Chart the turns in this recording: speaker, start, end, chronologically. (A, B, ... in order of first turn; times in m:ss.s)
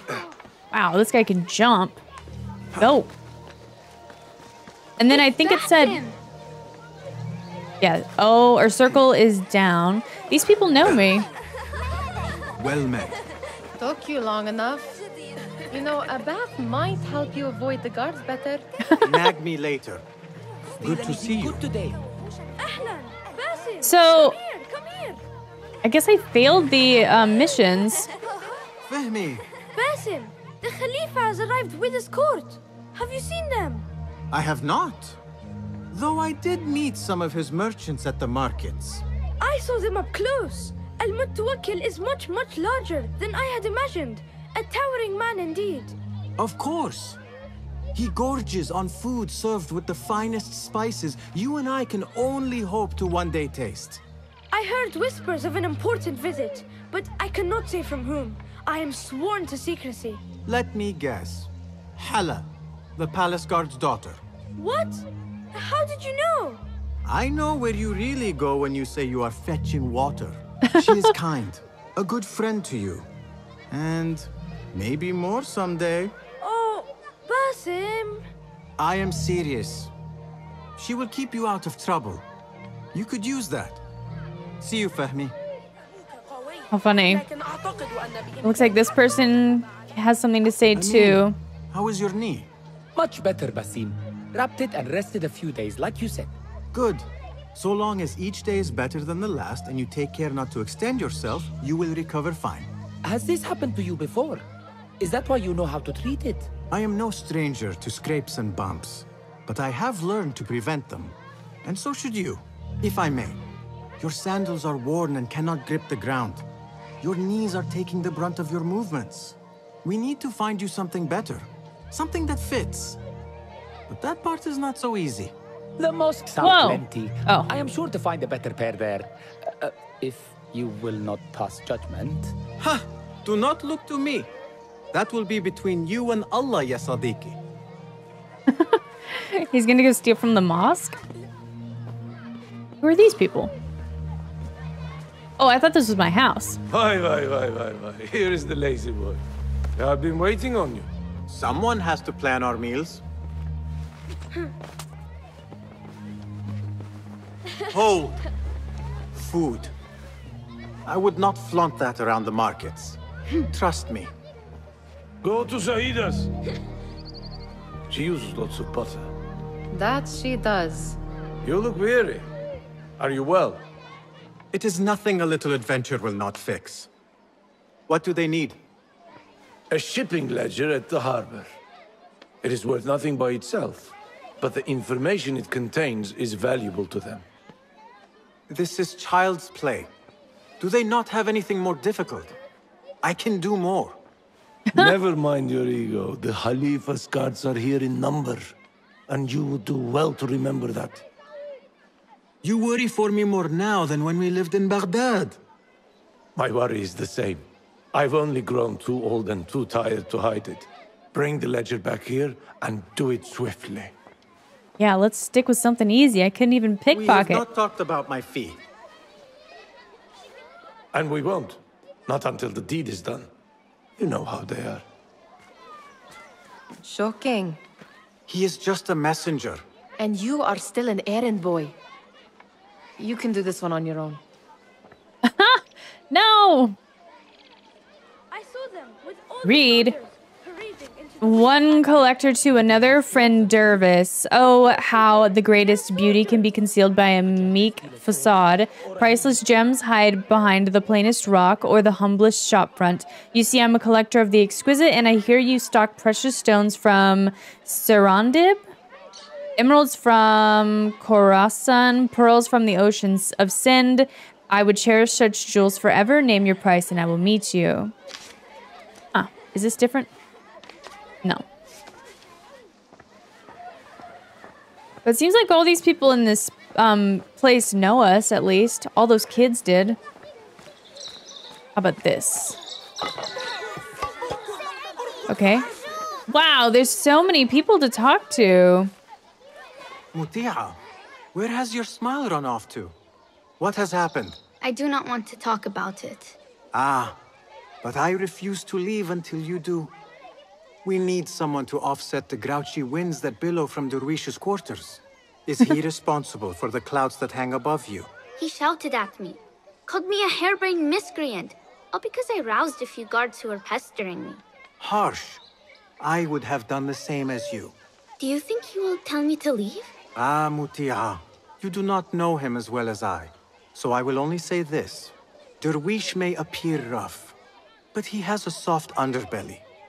0:00.7-0:02.0 A
0:02.8-0:03.1 A
0:05.0-0:06.0 A
0:05.7-0:06.1 B
0:07.8-0:11.3 A
0:12.6-0:13.2 C
0:13.8-0:15.0 D
0:15.7-0:18.7 D
0:19.0-0:20.0 C
0:20.8-0:22.0 E
0:20.8-0:21.6 C
0:22.6-0:25.2 B
0:23.8-0:24.4 A
0:25.8-0:28.1 A
0:28.9-0:29.5 C
0:29.7-0:33.9 B
0:34.3-0:35.2 C
0:35.9-0:39.0 C
0:39.4-0:46.0 B
0:46.4-0:47.2 C
0:47.9-0:54.0 C
0:54.5-1:00.2 B
1:00.5-1:04.2 C
1:04.6-1:06.6 B
1:07.0-1:13.1 C
1:10.6-1:11.1 A
1:13.7-1:16.2 C
1:16.4-1:18.2 B
1:18.8-1:19.9 C
1:20.8-1:22.3 C
1:22.9-1:23.8 C
1:24.6-1:25.4 C
1:26.3-1:28.5 B
1:26.7-1:27.2 A
1:28.4-1:31.4 A
1:30.8-1:32.5 C
1:33.0-1:36.3 E
1:36.7-1:42.7 C
1:43.0-1:44.4 E
1:45.0-1:46.5 E
1:46.7-1:53.4 C
1:54.0-1:56.4 C
1:57.0-2:03.0 C
2:03.9-2:05.3 C
2:05.8-2:12.4 E
2:06.4-2:07.5 A
2:12.6-2:14.3 C
2:14.9-2:17.4 C
2:18.5-2:21.0 A
2:22.8-2:23.5 A
2:25.4-2:26.6 A
2:26.7-2:29.2 F
2:29.8-2:30.9 F
2:31.3-2:33.0 C
2:37.7-2:38.2 C
2:39.2-2:39.7 C
2:40.9-2:44.1 C
2:45.2-2:46.3 F
2:47.9-2:49.1 F
2:49.7-2:51.0 D
2:51.4-2:52.3 F
2:53.0-2:53.6 F
2:54.5-2:56.9 C
2:57.9-2:58.6 C
2:59.7-3:01.5 F
3:02.4-3:07.2 F
3:08.5-3:09.9 C
3:10.6-3:12.4 C
3:13.0-3:14.0 C
3:14.8-3:18.5 F
3:19.1-3:21.0 F
3:22.4-3:25.4 C
3:26.4-3:33.9 F
3:34.8-3:37.4 A
3:36.9-3:38.6 C
3:40.9-3:43.3 F
3:44.0-3:44.8 F
3:46.8-3:47.6 D
3:48.3-3:49.6 C
3:50.0-3:51.8 D
3:53.0-3:54.2 D
3:55.2-3:56.8 A
3:58.3-4:02.4 B
3:59.4-4:00.0 A
4:01.2-4:18.6 A
4:03.0-4:03.4 B
4:19.6-4:27.9 A
4:29.1-4:30.1 A
4:35.0-4:40.0 A
4:41.8-4:42.6 A
4:45.3-4:45.7 A
4:46.3-4:48.9 A
4:50.1-4:50.8 C
4:51.3-4:53.0 C
4:53.6-4:54.4 C
4:54.6-4:56.4 G
4:56.7-4:57.2 C
4:57.8-4:59.9 C
5:00.8-5:08.1 C
5:08.4-5:14.4 G
5:14.8-5:15.4 C
5:16.0-5:17.8 C
5:18.2-5:19.9 G
5:20.2-5:27.4 C
5:27.9-5:29.6 C